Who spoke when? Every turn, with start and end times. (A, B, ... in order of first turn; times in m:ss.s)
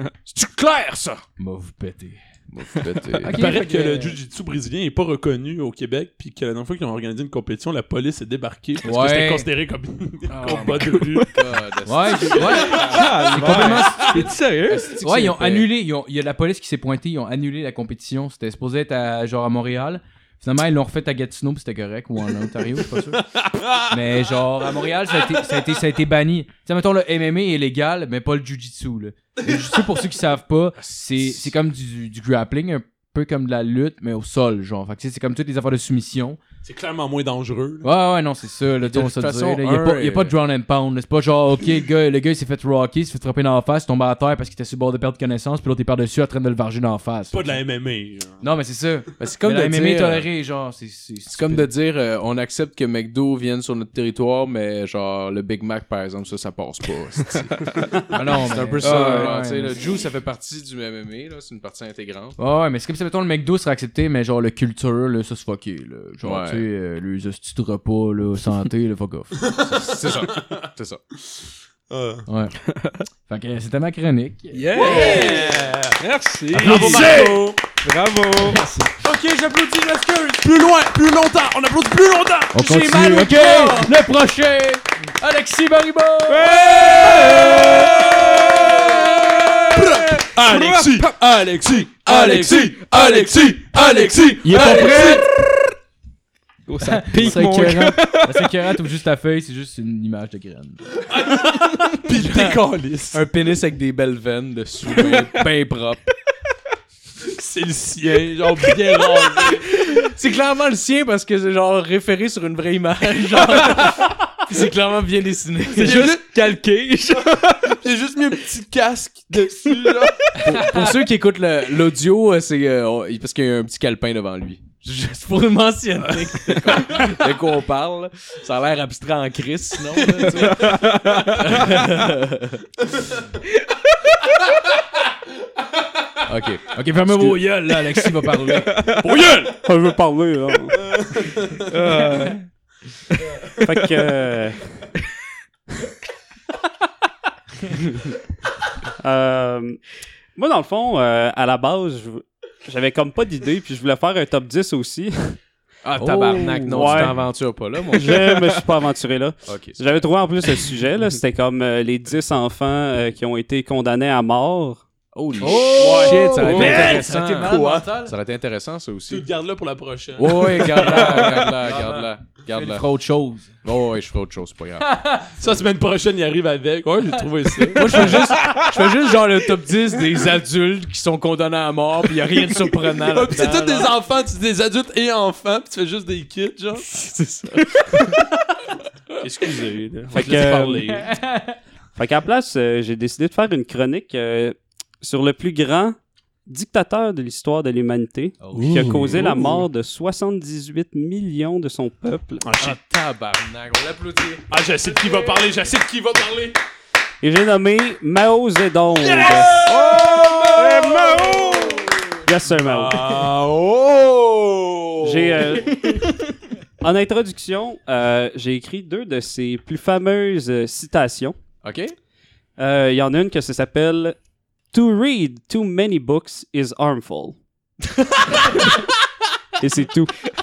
0:00.2-0:01.2 A
0:01.4-0:02.2 B
0:02.5-0:03.4 A
0:03.2-0:04.2 B
0:03.3-0:11.4 C
0:08.8-0:09.5 B
0:10.3-0:14.1 A
0:10.5-0:11.3 D
0:11.8-0:14.2 B
0:12.4-0:14.2 C
0:12.8-0:14.9 D
0:14.6-0:15.7 A
0:15.0-0:23.2 B
0:23.3-0:23.8 C
0:23.9-0:36.4 B
0:30.8-0:31.5 A
0:36.6-0:37.9 C
0:37.8-0:47.5 B
0:38.8-0:40.3 A
0:47.3-0:48.4 C
0:48.4-0:51.7 B
0:49.2-0:50.3 A
0:51.3-1:02.4 A
0:58.1-0:59.8 B
0:58.8-0:59.3 D
1:02.4-1:09.4 B
1:06.2-1:06.6 A
1:09.4-1:10.7 C
1:09.5-1:11.0 A
1:11.9-1:12.2 C
1:12.3-1:12.6 B
1:13.3-1:15.1 B
1:14.5-1:18.8 D
1:14.7-1:15.6 A
1:14.7-1:16.0 C
1:16.5-1:17.6 C
1:16.6-1:17.4 B
1:18.5-1:18.8 B
1:19.0-1:20.4 A
1:20.4-1:22.6 C
1:22.5-1:26.6 B
1:22.5-1:24.1 A
1:26.3-1:31.1 D
1:26.7-1:27.9 C
1:26.8-1:27.6 A
1:29.7-1:35.3 C
1:32.0-1:35.2 D
1:32.2-1:32.6 A
1:34.4-1:35.3 B
1:36.7-1:38.5 D
1:36.8-1:40.9 B
1:41.1-1:43.2 C
1:42.2-1:42.6 A
1:43.1-1:46.0 A
1:45.0-1:45.4 D
1:47.4-1:49.7 C
1:49.3-1:56.1 A
1:55.7-1:57.8 D
1:55.8-1:56.2 C
1:57.8-2:00.4 C
2:00.4-2:12.6 A
2:00.5-2:00.9 B
2:10.2-2:11.6 D
2:16.2-2:17.4 A
2:16.7-2:18.8 B
2:18.5-2:19.1 D
2:19.0-2:19.6 C
2:19.6-2:20.8 E
2:21.2-2:21.6 C
2:21.5-2:22.4 D
2:23.6-2:24.8 E
2:29.0-2:29.8 E
2:30.3-2:35.4 E
2:35.8-2:38.4 A
2:36.0-2:37.1 B
2:36.7-2:37.2 E
2:37.9-2:44.8 E
2:39.5-2:40.0 A
2:45.1-2:49.2 A
2:45.4-2:48.1 B
2:45.8-2:47.9 C
2:45.8-2:46.2 E
2:49.1-2:51.5 C
2:50.2-2:52.8 A
2:50.7-2:53.5 B
2:53.6-2:54.9 A
2:54.8-2:55.3 B
2:55.4-2:58.3 C
2:57.7-3:03.9 A
3:03.0-3:06.9 C
3:06.9-3:08.1 A
3:09.2-3:11.1 C
3:09.3-3:09.6 A
3:10.1-3:11.0 E
3:11.0-3:11.5 B
3:12.0-3:22.4 E
3:18.4-3:19.5 A
3:18.6-3:19.6 C
3:22.4-3:22.8 C
3:22.6-3:25.4 A
3:24.5-3:26.6 C
3:27.2-3:29.7 E
3:29.0-3:30.4 C
3:29.5-3:32.0 A
3:30.5-3:31.8 D
3:32.2-3:33.1 E
3:32.6-3:35.6 A
3:32.7-3:33.5 C
3:35.0-3:36.1 E
3:36.8-3:41.4 E
3:41.6-3:41.9 A
3:42.6-3:44.2 E
3:44.7-3:47.4 E
3:49.6-3:50.1 E